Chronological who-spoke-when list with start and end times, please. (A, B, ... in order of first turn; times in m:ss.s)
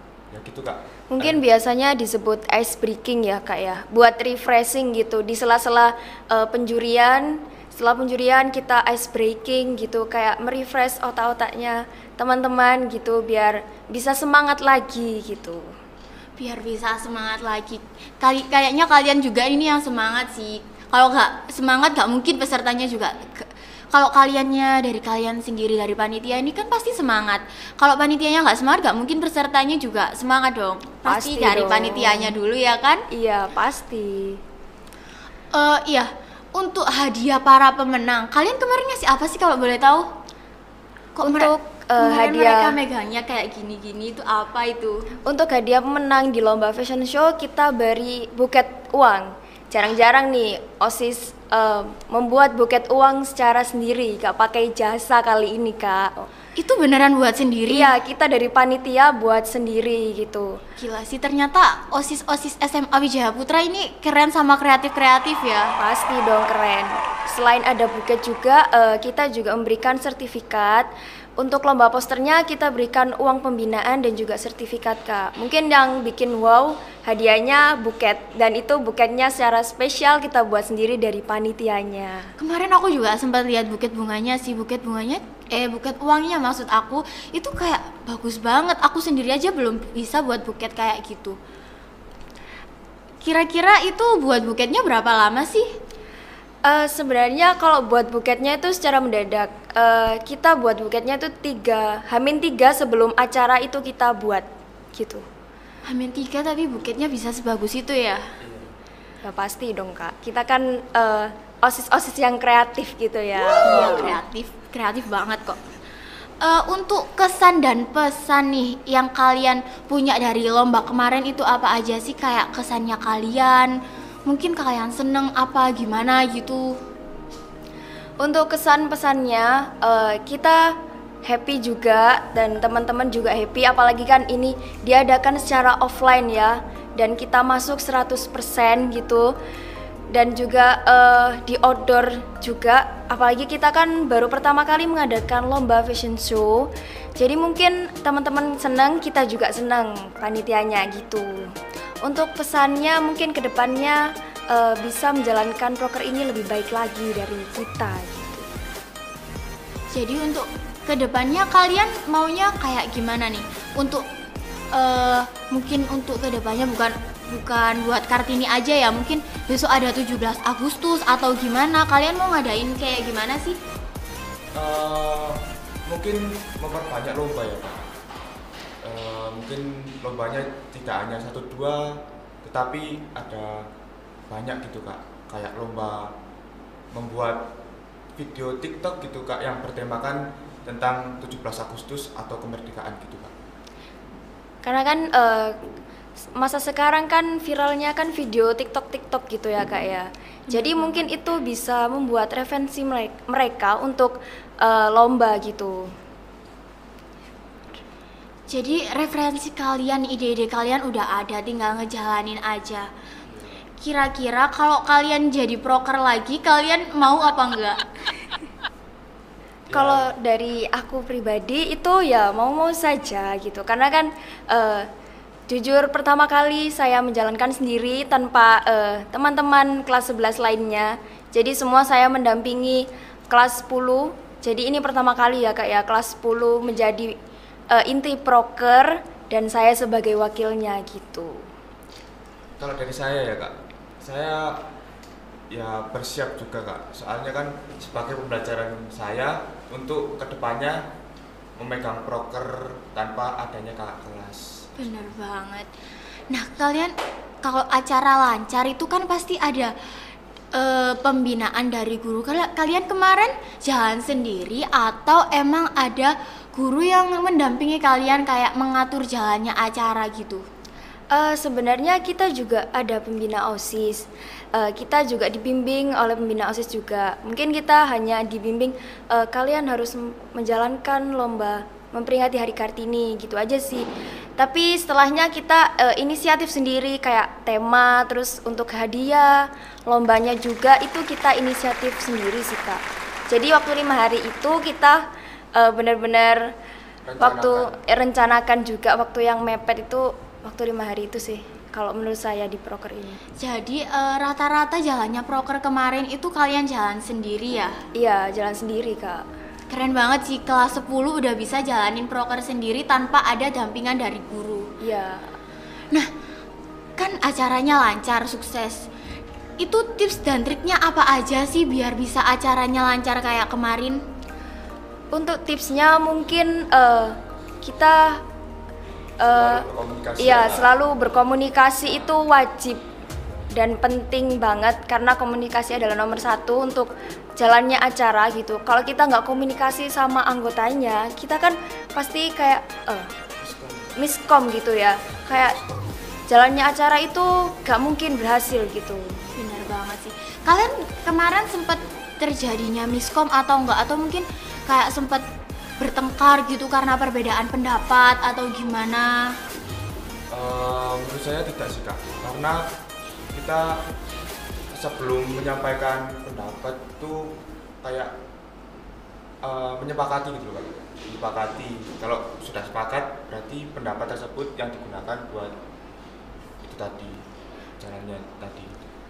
0:00.3-0:01.4 A
0:01.1-0:15.6 B
0:16.4-0:33.0 C
0:31.0-0:32.3 B
0:33.1-0:34.4 B
0:35.5-0:40.1 C
0:41.2-0:45.0 C
0:41.2-0:42.8 B
0:45.2-0:56.3 B
0:56.6-0:57.9 C
0:57.7-1:00.6 B
1:00.8-1:05.7 C
1:05.8-1:10.9 B
1:11.4-1:22.3 B
1:22.4-1:31.4 C
1:33.2-1:35.7 C
1:36.6-1:45.2 B
1:45.8-1:48.2 C
1:48.4-1:48.7 A
1:49.2-1:54.2 B
1:53.4-1:55.6 C
1:56.4-2:03.7 C
2:04.2-2:06.7 C
2:08.2-2:10.7 B
2:11.2-2:19.3 B
2:20.1-2:31.5 B
2:32.0-2:38.5 B
2:39.9-2:44.0 C
2:44.7-2:53.6 C
2:54.5-2:57.9 A
2:58.8-3:03.7 A
3:04.3-3:06.1 A
3:06.9-3:07.4 A
3:08.2-3:13.3 A
3:14.6-3:15.6 B
3:16.3-3:25.8 B
3:20.5-3:21.1 C
3:28.5-3:32.9 C
3:33.8-3:37.8 C
3:39.7-3:40.1 A
3:39.7-3:44.8 B
3:45.5-3:57.1 B
3:57.7-4:01.4 B
4:02.6-4:04.6 A
4:05.5-4:10.8 A
4:11.6-4:14.7 A
4:14.8-4:15.7 C
4:16.3-4:19.7 C
4:20.5-4:30.4 C
4:31.1-4:43.9 B
4:44.4-4:55.0 B
4:55.5-4:56.5 B
4:57.0-4:57.7 A
4:57.2-5:03.2 B
5:03.4-5:07.8 C
5:08.0-5:09.2 B
5:09.7-5:14.7 C
5:14.8-5:15.3 B
5:17.0-5:18.9 C
5:19.6-5:24.0 C
5:25.1-5:28.2 B
5:29.2-5:29.6 B
5:29.3-5:30.8 A
5:30.2-5:32.8 B
5:33.5-5:43.1 B
5:43.4-5:43.9 A
5:44.0-5:45.6 B
5:45.3-5:45.9 A
5:46.3-5:49.1 B
5:49.3-5:55.2 C
5:55.8-5:59.3 C
6:00.3-6:02.6 A
6:03.3-6:03.8 A
6:04.7-6:08.1 A
6:09.4-6:15.5 A
6:16.6-6:17.2 A
6:17.8-6:18.7 A